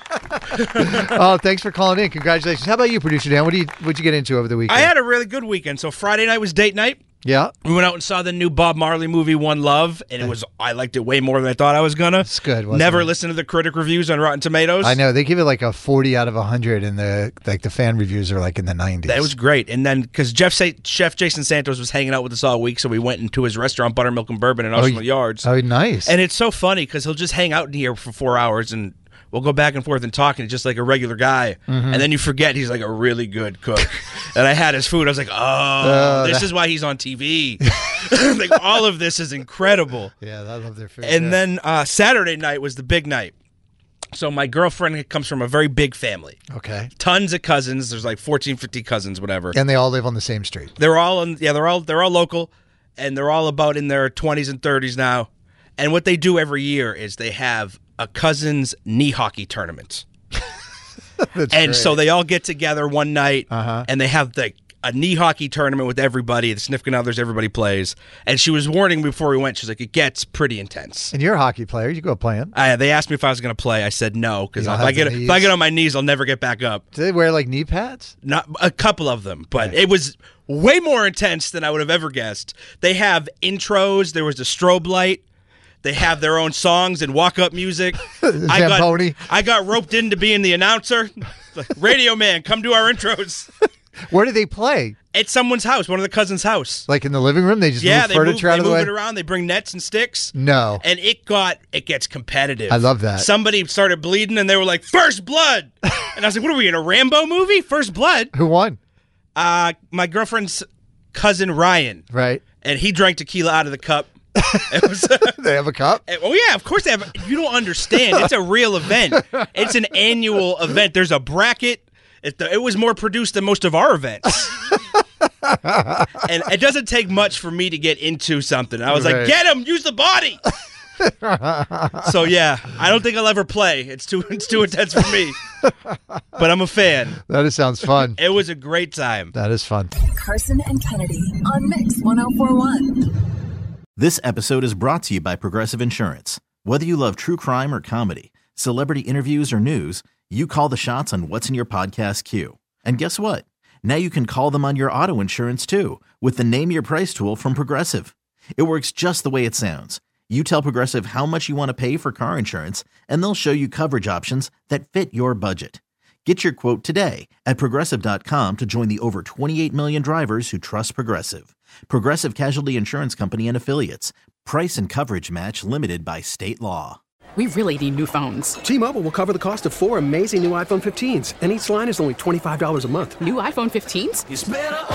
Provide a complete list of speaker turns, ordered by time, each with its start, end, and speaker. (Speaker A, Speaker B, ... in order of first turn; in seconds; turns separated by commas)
Speaker A: 0.5-1.0, Speaker B: 0.8-4.9, Speaker A: 4.7-7.0, Speaker B: 7.2-7.5, Speaker A: 7.6-15.0, Speaker B: 12.2-13.1, Speaker B: 14.8-19.3, Speaker A: 19.1-25.5, Speaker B: 24.8-26.1, Speaker A: 26.1-40.1, Speaker B: 31.7-32.1, Speaker B: 35.8-36.5, Speaker B: 40.2-41.4, Speaker A: 41.0-43.3, Speaker A: 44.1-46.4, Speaker B: 46.5-46.9, Speaker A: 47.0-49.6, Speaker B: 49.5-50.7, Speaker A: 50.8-60.0, Speaker B: 61.2-62.0, Speaker A: 61.5-71.1, Speaker B: 63.5-63.9, Speaker B: 71.1-72.5, Speaker A: 72.5-76.8, Speaker B: 74.6-75.5, Speaker B: 76.9-78.1, Speaker A: 78.2-85.2, Speaker A: 85.8-93.5, Speaker B: 88.2-89.2, Speaker B: 94.1-95.0, Speaker A: 95.1-96.9, Speaker B: 96.9-98.9, Speaker A: 97.8-108.3, Speaker B: 100.3-100.8, Speaker B: 102.7-103.3, Speaker B: 108.3-108.8, Speaker A: 109.4-112.0, Speaker B: 112.1-112.4, Speaker A: 112.6-114.1, Speaker A: 114.7-115.3, Speaker B: 115.3-116.0, Speaker A: 116.1-124.7, Speaker B: 125.6-125.8, Speaker A: 126.2-130.4, Speaker B: 128.9-129.3, Speaker B: 131.0-132.1, Speaker A: 132.1-135.4, Speaker A: 136.4-137.2, Speaker B: 137.2-138.2, Speaker A: 138.1-139.3, Speaker B: 139.3-139.9, Speaker C: 140.1-143.1, Speaker D: 144.0-177.0, Speaker E: 177.4-178.6, Speaker F: 178.7-183.2, Speaker E: 183.2-184.3